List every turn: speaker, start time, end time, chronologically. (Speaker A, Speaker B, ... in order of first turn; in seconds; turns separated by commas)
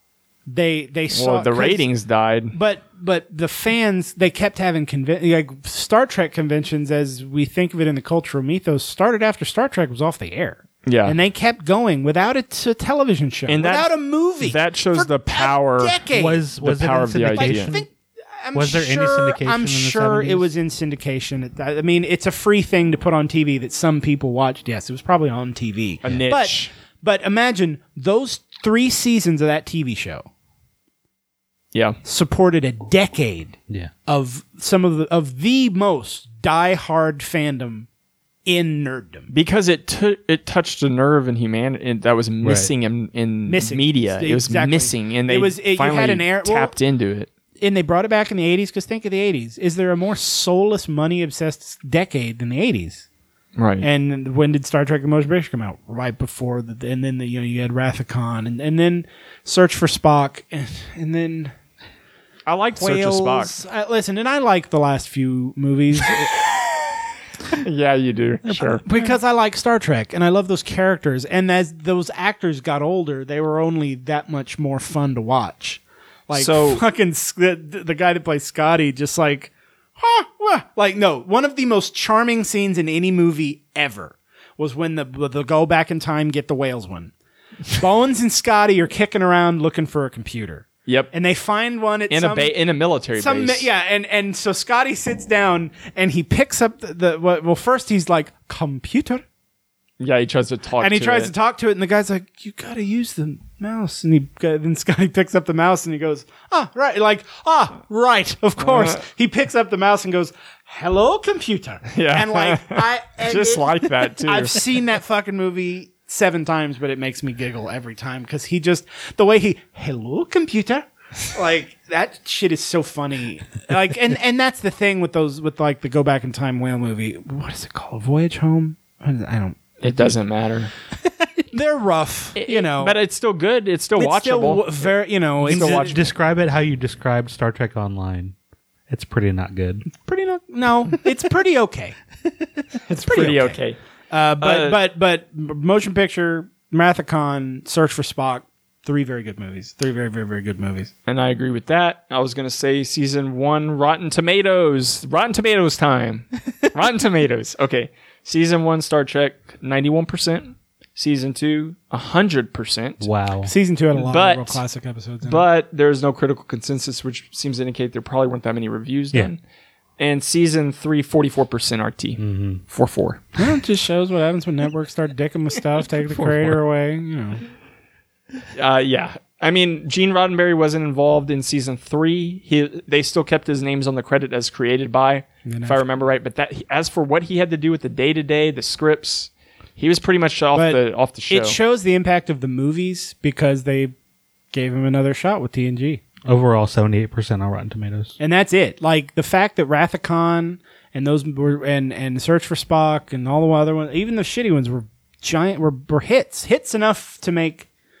Speaker A: 0.5-1.9, Speaker B: 1.1-2.5, Speaker A: 2.5-16.4, Speaker B: 10.8-11.2, Speaker B: 13.5-16.0, Speaker C: 16.1-17.9, Speaker B: 16.6-17.7, Speaker A: 17.3-30.3, Speaker C: 18.5-20.5, Speaker B: 26.0-26.7, Speaker B: 31.7-32.0, Speaker A: 32.0-37.9, Speaker A: 38.5-39.3, Speaker B: 39.3-47.3, Speaker C: 42.4-42.7, Speaker A: 43.5-46.7, Speaker A: 47.6-53.0, Speaker B: 53.5-53.9, Speaker A: 53.8-61.5, Speaker B: 62.5-63.6, Speaker A: 62.8-66.3, Speaker B: 66.4-66.6, Speaker B: 67.5-68.8, Speaker A: 68.8-87.1, Speaker B: 76.3-76.8, Speaker A: 87.7-92.5, Speaker B: 92.1-93.7, Speaker A: 93.2-99.2, Speaker B: 100.0-101.3, Speaker A: 100.8-130.2, Speaker B: 108.6-109.0, Speaker B: 111.9-114.6, Speaker B: 129.8-130.7, Speaker A: 131.5-133.0, Speaker B: 132.3-136.1, Speaker A: 134.0-136.0, Speaker C: 135.5-138.3, Speaker C: 138.9-139.8, Speaker A: 139.9-141.9, Speaker A: 142.9-143.6, Speaker B: 142.9-143.8, Speaker A: 144.1-150.9, Speaker B: 144.4-144.8, Speaker B: 151.1-163.1, Speaker C: 163.0-163.5, Speaker A: 163.4-165.4, Speaker B: 163.9-164.6, Speaker B: 165.2-169.4, Speaker B: 170.0-173.3, Speaker C: 172.2-172.6, Speaker A: 173.4-177.4, Speaker C: 176.0-176.6, Speaker B: 178.5-191.6, Speaker A: 185.4-185.8, Speaker A: 190.5-193.9, Speaker A: 194.5-196.0, Speaker C: 196.2-198.2, Speaker A: 198.2-207.7